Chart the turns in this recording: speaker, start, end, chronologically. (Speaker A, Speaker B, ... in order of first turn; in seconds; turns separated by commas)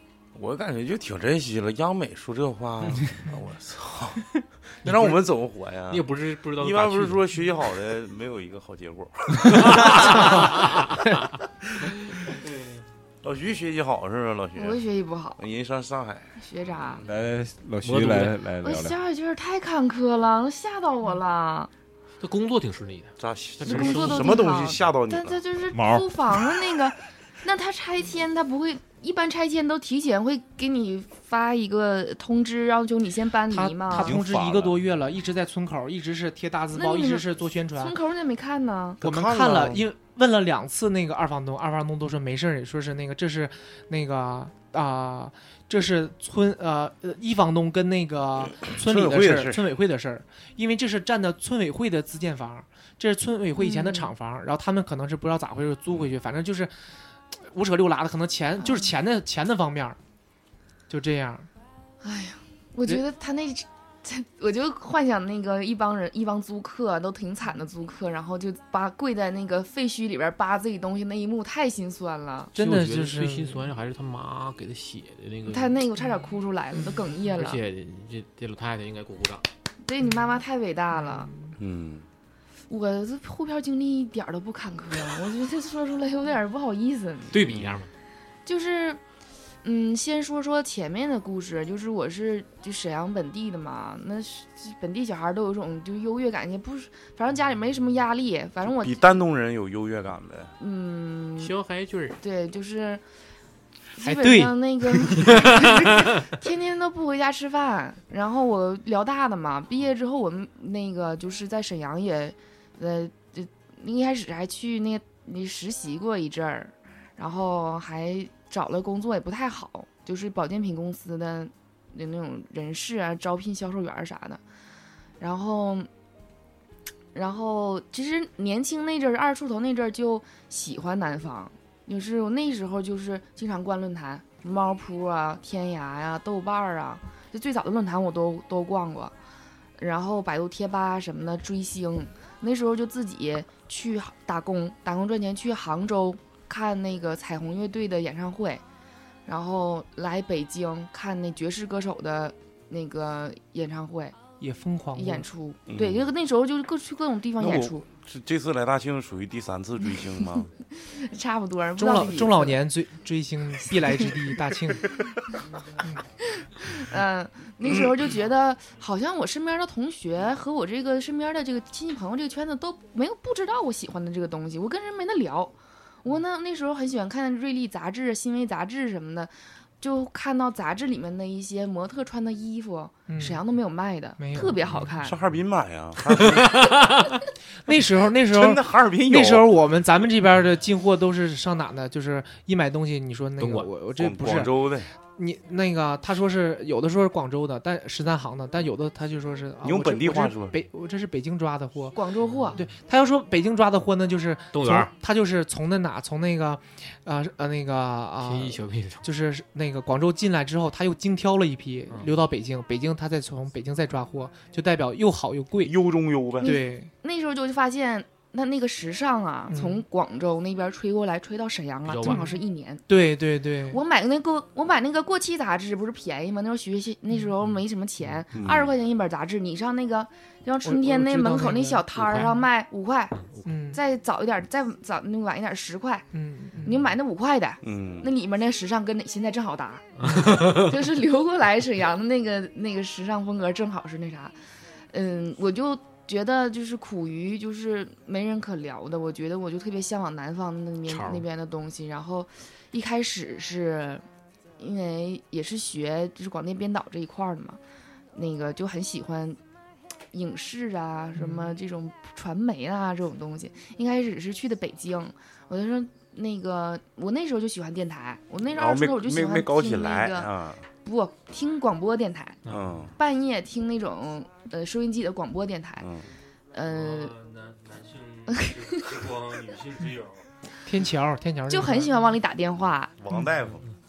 Speaker A: 0.3-4.3, Speaker A: 4.8-10.6, Speaker B: 5.9-7.2, Speaker B: 9.5-10.9, Speaker B: 12.4-12.8, Speaker A: 13.2-14.8, Speaker C: 14.6-15.4, Speaker A: 15.4-17.0, Speaker C: 16.4-17.0, Speaker D: 17.1-19.0, Speaker B: 17.8-18.4, Speaker C: 18.6-21.7, Speaker B: 22.2-24.4, Speaker A: 23.2-25.4, Speaker C: 23.6-34.2, Speaker D: 25.7-26.2, Speaker E: 33.5-38.0, Speaker D: 34.0-34.8, Speaker C: 36.7-39.0, Speaker A: 39.0-39.9, Speaker E: 39.0-56.7, Speaker A: 48.8-49.6, Speaker C: 53.6-54.1, Speaker E: 57.3-60.0, Speaker C: 58.6-58.9, Speaker E: 60.9-61.5, Speaker C: 62.0-72.5, Speaker E: 72.5-73.7, Speaker B: 72.6-75.8, Speaker C: 75.5-77.6, Speaker B: 77.3-79.5, Speaker C: 79.8-81.3, Speaker E: 80.0-80.3, Speaker E: 80.9-81.5, Speaker A: 81.6-82.1, Speaker C: 82.7-87.5, Speaker B: 87.3-87.9, Speaker C: 88.5-89.0, Speaker C: 89.6-99.2, Speaker A: 98.6-100.5, Speaker C: 100.6-101.5, Speaker B: 101.4-102.2, Speaker C: 102.2-103.0, Speaker C: 103.9-124.4, Speaker E: 104.0-105.2, Speaker C: 125.2-125.9, Speaker C: 127.1-139.1, Speaker C: 139.8-148.6, Speaker C: 149.3-154.2, Speaker E: 154.4-155.3, Speaker C: 154.9-157.8, Speaker A: 155.7-156.1, Speaker A: 157.4-160.5, Speaker C: 160.2-162.6, Speaker E: 161.8-164.9, Speaker C: 166.2-185.2, Speaker E: 183.1-183.4, Speaker E: 184.2-184.9, Speaker A: 185.0-186.8, Speaker B: 186.2-187.1, Speaker E: 187.7-194.5, Speaker A: 188.3-189.6, Speaker B: 193.4-193.7, Speaker A: 194.0-194.9, Speaker E: 195.2-202.0, Speaker A: 199.6-200.6, Speaker C: 201.9-202.6, Speaker E: 202.6-215.7, Speaker B: 204.5-204.9, Speaker B: 208.2-209.1, Speaker B: 211.9-212.2, Speaker A: 215.6-216.5, Speaker C: 216.4-222.8, Speaker E: 216.4-216.9, Speaker E: 219.5-219.8, Speaker B: 221.9-222.4, Speaker E: 222.0-223.8, Speaker C: 223.7-233.2, Speaker A: 228.3-228.8, Speaker E: 230.6-232.4, Speaker B: 231.9-232.3, Speaker B: 233.2-233.5, Speaker E: 233.4-233.8, Speaker C: 233.7-236.1, Speaker E: 236.1-236.8, Speaker C: 236.7-244.4, Speaker A: 237.6-238.1, Speaker B: 240.0-240.8, Speaker C: 244.9-254.0, Speaker B: 250.9-251.3, Speaker C: 254.6-257.6, Speaker C: 258.1-259.4, Speaker C: 260.1-272.4, Speaker E: 261.2-261.5, Speaker A: 268.5-270.6, Speaker B: 272.4-272.9, Speaker A: 272.5-272.9, Speaker C: 273.0-275.9, Speaker A: 275.8-276.1, Speaker C: 276.5-277.1, Speaker F: 276.6-280.3, Speaker C: 278.4-278.8, Speaker E: 280.6-282.1, Speaker C: 281.5-283.0, Speaker A: 283.0-283.7